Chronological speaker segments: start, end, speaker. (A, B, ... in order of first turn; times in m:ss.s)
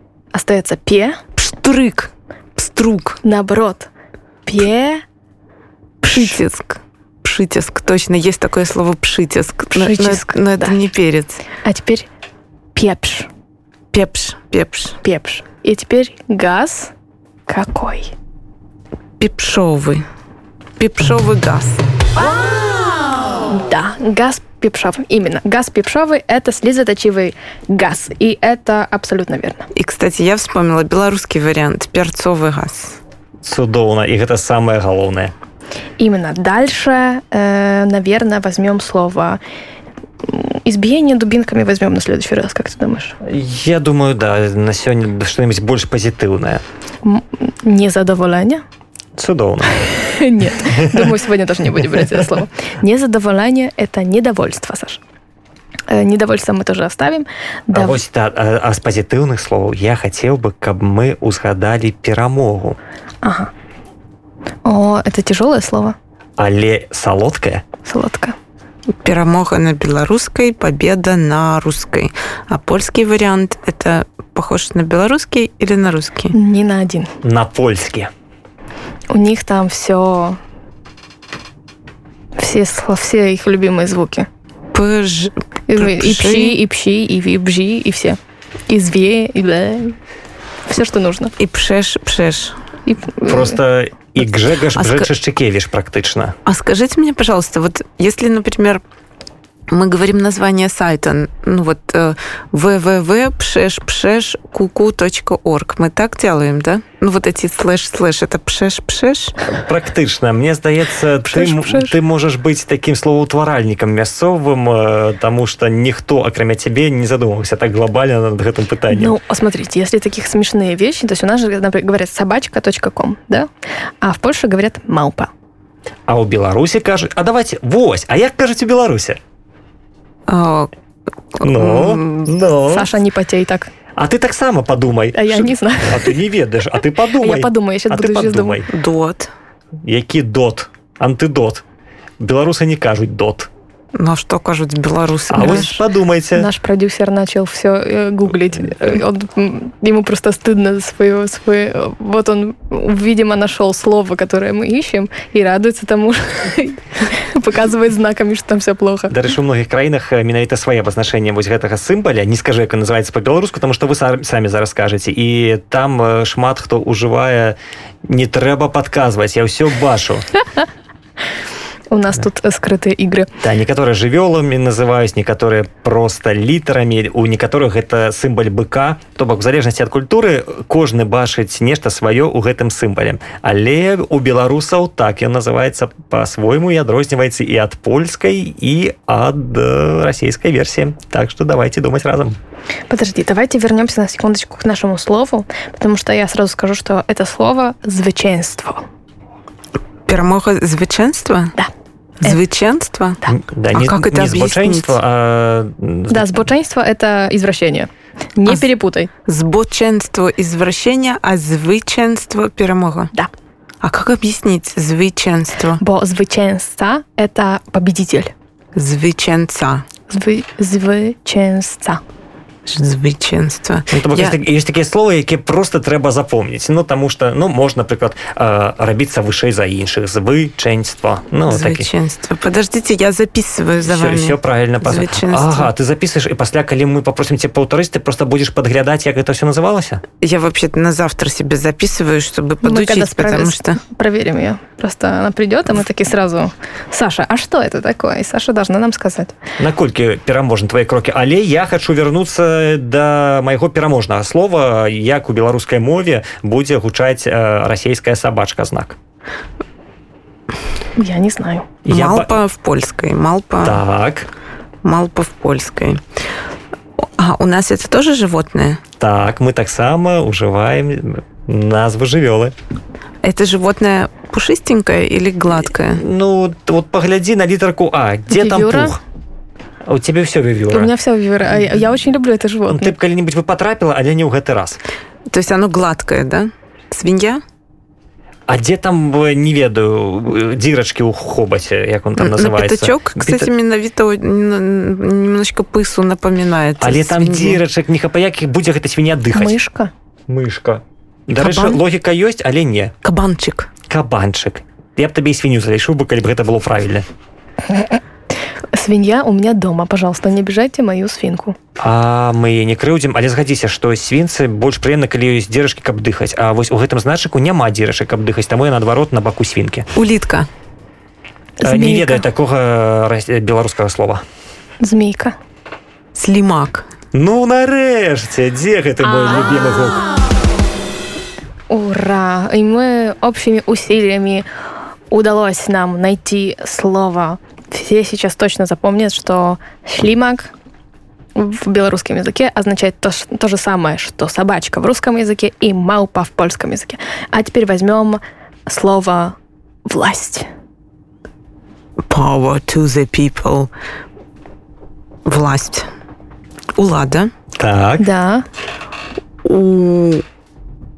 0:00.3-0:01.2 A
0:01.4-0:03.2 B
0:03.2-0:03.9 A
0:04.4-0:05.0 A
0:06.0-0:06.4 A
0:06.0-0:11.4 B
0:09.7-0:10.8 A
0:11.6-0:12.1 A
0:12.7-0:13.3 A
0:13.9-0:15.0 B
0:15.0-0:16.9 A
0:17.5-0:18.1 A
0:19.2-0:20.0 B
0:20.8-0:21.8 B
0:23.5-0:29.7 A
0:29.7-0:33.0 B
0:33.4-0:35.3 C
0:36.0-0:39.4 A
0:40.2-0:43.2 A
0:43.2-0:46.6 C
0:47.0-0:48.6 A
0:49.2-0:49.9 C
0:49.9-0:55.0 A
0:50.6-0:51.1 C
0:55.9-0:58.0 A
0:57.7-1:02.8 C
1:03.2-1:03.5 A
1:04.6-1:06.0 A
1:06.4-1:07.6 C
1:07.8-1:08.3 A
1:09.0-1:16.3 B
1:16.3-1:17.1 A
1:17.2-1:18.1 C
1:19.1-1:20.4 A
1:22.4-1:24.3 A
1:24.7-1:26.6 B
1:25.7-1:28.2 A
1:28.7-1:30.0 A
1:30.7-1:31.3 A
1:31.4-1:32.5 B
1:32.8-1:33.5 A
1:33.2-1:36.3 C
1:34.7-1:35.1 B
1:36.4-1:38.8 B
1:39.7-1:49.3 B
1:49.5-1:59.1 C
1:51.3-1:52.0 A
1:58.9-2:03.5 A
2:04.0-2:05.3 A
2:06.1-2:09.2 C
2:10.3-2:10.7 B
2:11.4-2:12.3 B
2:11.4-2:12.9 C
2:12.7-2:13.7 A
2:14.0-2:18.7 C
2:15.1-2:16.1 A
2:17.2-2:18.6 A
2:18.7-2:19.3 B
2:19.8-2:21.6 C
2:22.2-2:23.5 C
2:24.0-2:25.7 B
2:25.3-2:26.5 C
2:25.4-2:25.8 A
2:26.3-2:39.1 A
2:39.1-2:50.2 C
2:51.9-2:53.3 A
2:53.4-3:12.4 C
3:12.9-3:18.8 A
3:20.1-3:21.5 B
3:22.2-3:23.2 B
3:23.3-3:26.4 C
3:23.7-3:25.0 B
3:26.1-3:29.1 A
3:29.3-3:33.1 B
3:33.8-3:35.8 B
3:35.8-3:38.3 A
3:38.7-3:39.8 B
3:40.1-3:42.0 A
3:42.6-3:44.3 B
3:43.9-3:51.9 C
3:51.5-3:55.7 B
3:53.8-4:00.0 C
4:00.2-4:03.8 B
4:02.6-4:09.4 A
4:09.6-4:19.0 C
4:21.0-4:21.7 A
4:21.8-4:22.3 C
4:21.9-4:23.8 B
4:23.6-4:24.3 C
4:24.8-4:26.0 B
4:27.0-4:28.8 B
4:29.0-4:32.5 C
4:33.2-4:36.0 B
4:35.9-4:39.0 C
4:38.3-4:39.0 A
4:39.9-4:40.9 C
4:40.7-4:42.9 A
4:42.7-4:44.8 C
4:45.3-4:47.4 B
4:48.5-4:53.5 C
4:52.2-4:57.6 B
4:56.8-4:59.5 C
4:59.3-4:59.9 A
5:00.3-5:02.9 C
5:01.4-5:01.8 B
5:03.0-5:03.7 B
5:03.9-5:07.0 C
5:08.7-5:11.6 A
5:11.8-5:19.8 C
5:19.9-5:20.5 B
5:21.6-5:22.2 A
5:21.6-5:24.2 C
5:24.8-5:25.3 A
5:26.1-5:26.8 B
5:27.1-5:30.0 C
5:31.7-5:34.4 A
5:35.1-5:40.5 A
5:41.4-5:49.3 A
5:49.8-5:50.5 A
5:52.1-5:53.7 B
5:55.2-5:55.9 B
5:56.7-5:57.3 B
5:57.6-5:58.0 C
5:58.0-5:58.4 A
5:59.4-6:00.2 B